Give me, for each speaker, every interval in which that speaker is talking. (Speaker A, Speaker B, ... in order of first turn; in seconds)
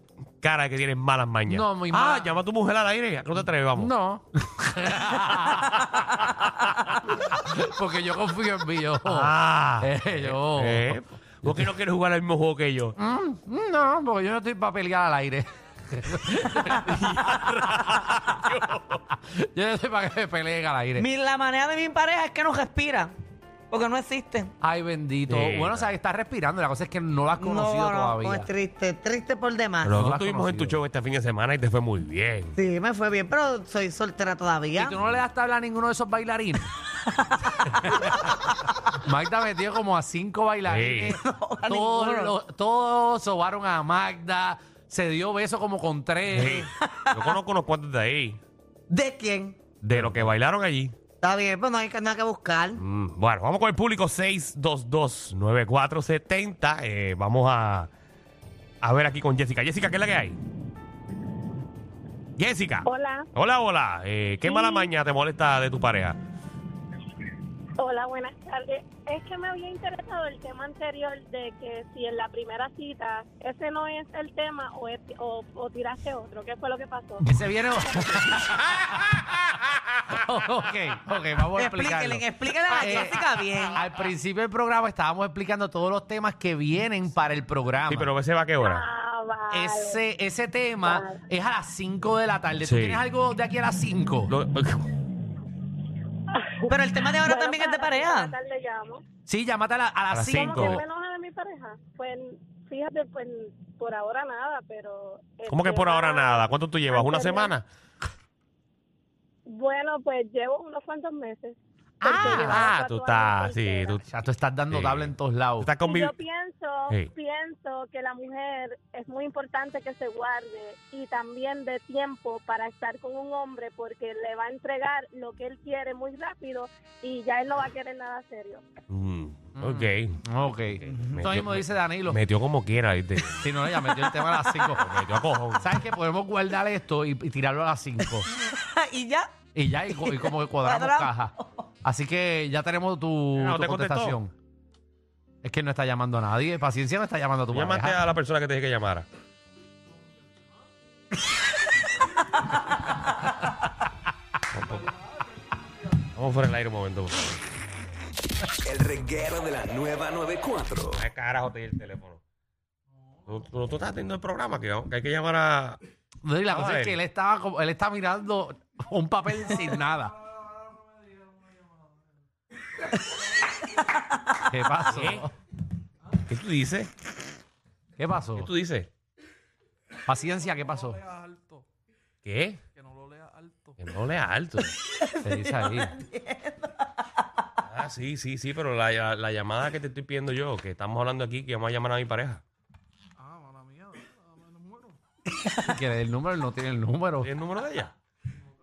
Speaker A: 0.4-3.9, 5.1-6.1, 9.0-12.9, 16.3-19.1, 25.3-25.9, 29.8-32.6, 40.7-41.2, 46.3-48.4, 49.8-50.9, 52.8-57.9, 58.8-60.4, 62.4-66.2, 87.9-88.9, 92.6-93.0, 94.3-95.0, 100.1-100.8, 105.5-107.7, 112.1-114.0, 114.7-116.1, 128.9-130.2, 131.0-133.5, 134.8-135.7, 143.3-144.2, 147.5-149.1, 154.5-154.9, 156.2-157.5, 161.0-162.2, 163.3-165.8, 166.5-167.0, 174.9-175.3, 176.2-176.9, 178.4-178.9, 182.2-182.6, 183.8-184.8, 187.7-192.4, 197.2-197.9
Speaker B: 1.5-2.4, 3.8-11.7, 13.0-18.2, 19.1-21.1, 24.6-28.5, 29.9-30.8, 34.8-36.7, 38.0-38.2, 39.0-46.7, 49.9-50.3, 77.2-79.2, 80.1-88.1, 89.5-94.3, 99.3-100.8, 112.0-112.7, 114.0-115.7, 129.6-132.2, 133.4-134.9, 135.6-138.3, 139.6-144.3, 145.4-148.0, 166.2-170.2, 174.4-175.3, 178.0-178.5, 180.1-181.1, 185.2-185.9, 195.6-197.3
Speaker C: 21.0-23.1, 23.7-24.5, 27.4-29.9, 32.6-35.0, 41.1-42.3, 46.5-47.4, 48.9-49.6, 51.2-52.8, 81.6-83.8, 96.7-98.3, 134.0-134.6, 138.4-139.3, 139.9-141.6, 184.9-186.9
Speaker D: 62.8-63.3, 64.5-64.9, 67.8-77.2, 88.6-90.0, 90.8-91.2, 97.2-99.0, 100.3-107.5, 109.5-114.0, 115.8-128.6
Speaker E: 158.6-161.0